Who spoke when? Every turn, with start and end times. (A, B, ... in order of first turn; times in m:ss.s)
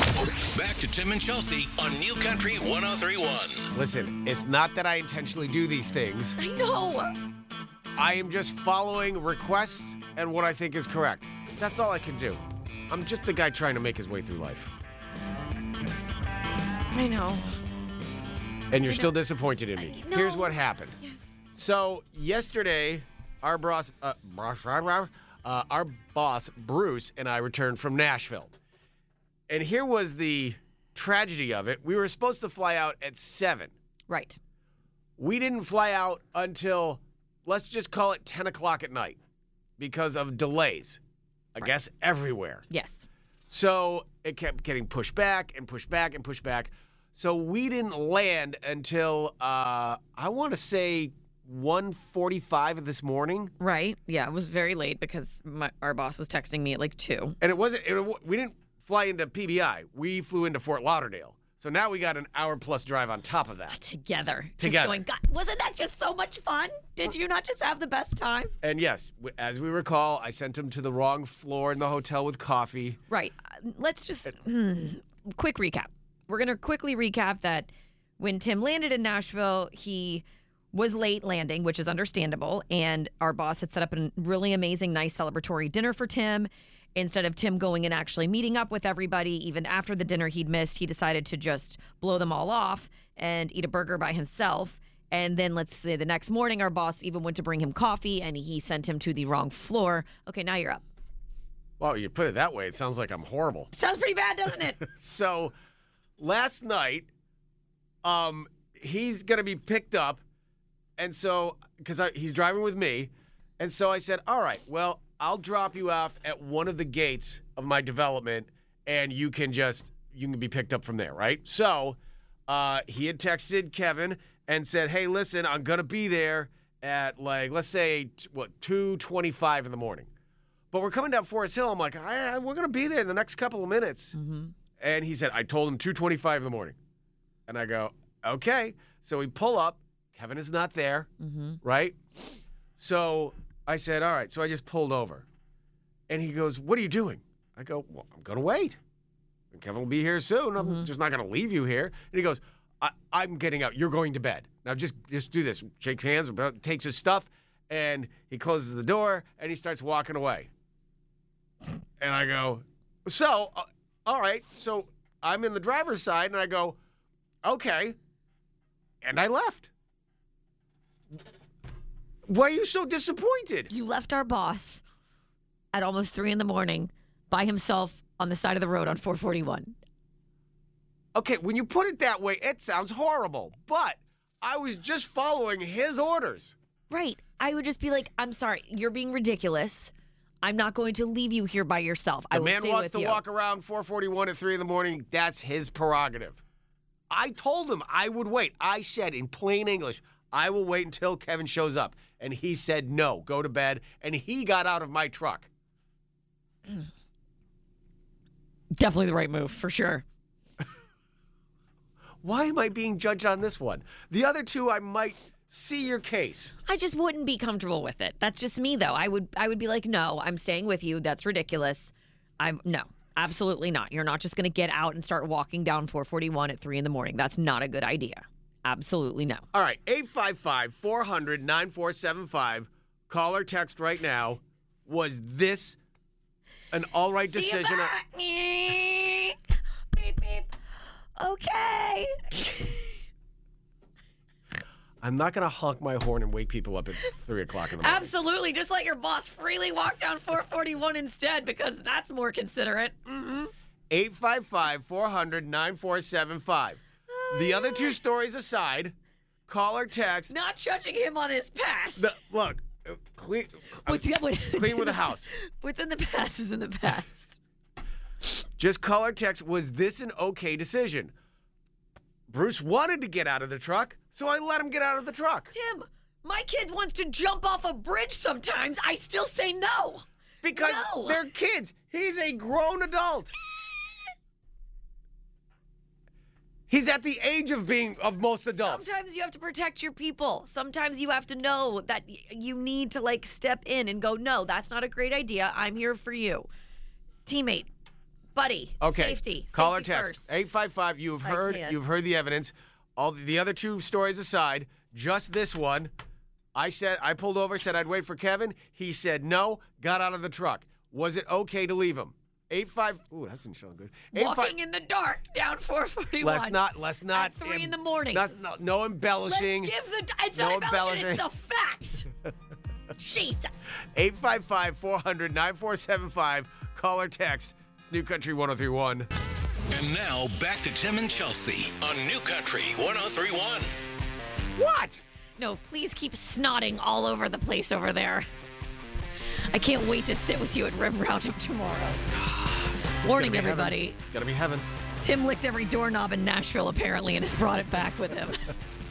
0:00.2-0:03.7 A
0:03.7-0:06.4 B
0:06.4-0:07.2 C
0:08.0-0:14.7 B
0:16.9-0:17.6 C
0:18.7-0:21.0 B
0:18.8-0:19.1 C
0:19.8-0:21.3 C
0:21.5-0:28.5 B
0:29.5-0:33.7 B
0:34.1-0:34.4 C
0:35.2-0:39.2 B
0:39.8-0:41.0 B
0:41.5-0:42.6 B
0:42.7-0:43.1 C
0:43.5-0:53.5 B
0:53.6-0:57.4 C
0:57.4-1:03.8 B
1:03.7-1:08.5 C
1:04.6-1:05.0 B
1:08.6-1:13.0 B
1:13.1-1:40.8 C
1:41.8-1:43.7 B
1:43.8-1:44.8 C
1:44.8-1:45.5 B
1:46.2-1:47.1 B
1:48.0-1:50.2 B
1:51.0-2:02.0 B
2:02.5-2:10.1 B
2:10.7-2:14.2 B
2:14.1-2:14.5 C
2:14.8-2:16.8 B
2:17.5-2:21.1 B
2:21.2-2:21.6 C
2:21.6-2:22.0 B
2:22.8-2:25.2 B
2:26.1-2:28.8 B
2:29.5-2:40.5 B
2:30.6-2:30.9 C
2:42.0-2:46.8 B
2:47.4-2:48.0 B
2:49.0-2:49.7 B
2:52.3-2:53.7 B
2:53.7-2:54.8 C
2:55.7-2:59.7 C
3:01.1-3:06.5 B
3:06.9-3:13.2 C
3:12.3-3:16.4 B
3:17.1-3:25.5 B
3:28.7-3:30.0 C
3:32.2-3:36.5 B
3:36.6-3:49.4 C
3:49.5-3:55.8 B
3:56.7-3:57.9 B
3:57.3-3:59.4 C
3:59.9-4:00.5 C
4:01.2-4:02.9 C
4:05.0-4:08.1 B
4:07.8-4:13.5 C
4:13.9-4:18.9 B
4:17.1-4:18.0 C
4:19.5-4:20.3 B
4:20.3-4:22.1 C
4:22.0-4:25.3 B
4:23.8-4:27.4 C
4:28.6-4:31.1 B
4:32.3-4:35.5 B
4:35.5-4:41.2 C
4:40.4-4:43.3 B
4:46.7-4:48.9 B
4:48.5-4:56.5 C
4:57.2-4:57.7 C
4:58.4-5:00.3 C
4:58.8-5:05.9 B
5:01.2-5:01.8 C
5:06.5-5:14.6 B
5:14.1-5:16.6 C
5:16.2-5:19.7 B
5:17.1-5:18.3 C
5:19.3-5:22.1 C
5:20.4-5:21.2 B
5:23.0-5:23.5 C
5:23.9-5:29.1 B
5:29.7-5:33.7 A
5:34.6-5:35.0 B
5:35.4-5:38.2 C
5:39.4-5:42.0 C
5:42.2-5:44.6 B
5:43.0-5:44.0 C
5:45.0-5:48.5 C